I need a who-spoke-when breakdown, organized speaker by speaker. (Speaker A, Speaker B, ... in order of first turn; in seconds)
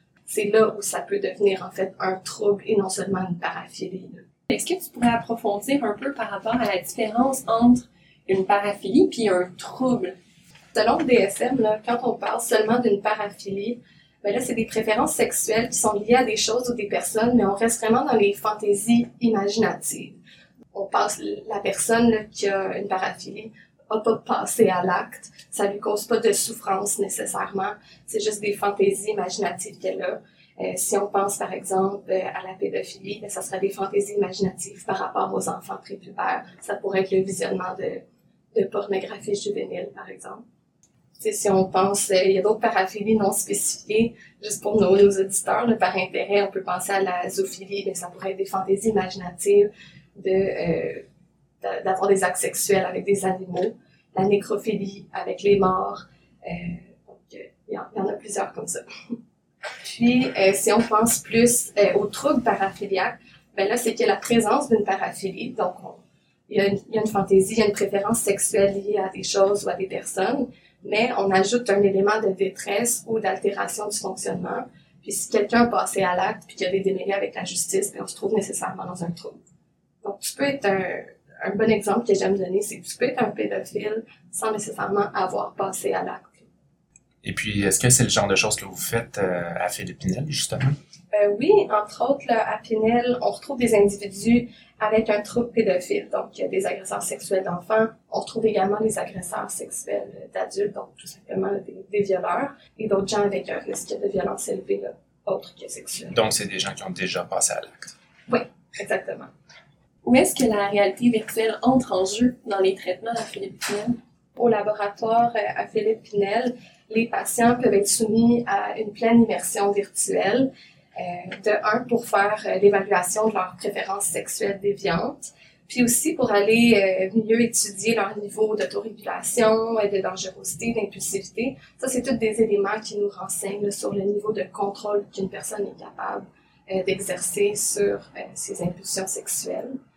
Speaker A: 0.3-4.3, 10.7-20.2, 20.7-40.4, 41.2-51.0, 51.6-58.8, 59.8-79.4, 80.0-86.5, 91.1-106.2, 108.3-109.3, 114.4-139.8
Speaker B: 4.5-10.1, 110.0-114.0
Speaker C: 87.2-90.8, 106.1-108.0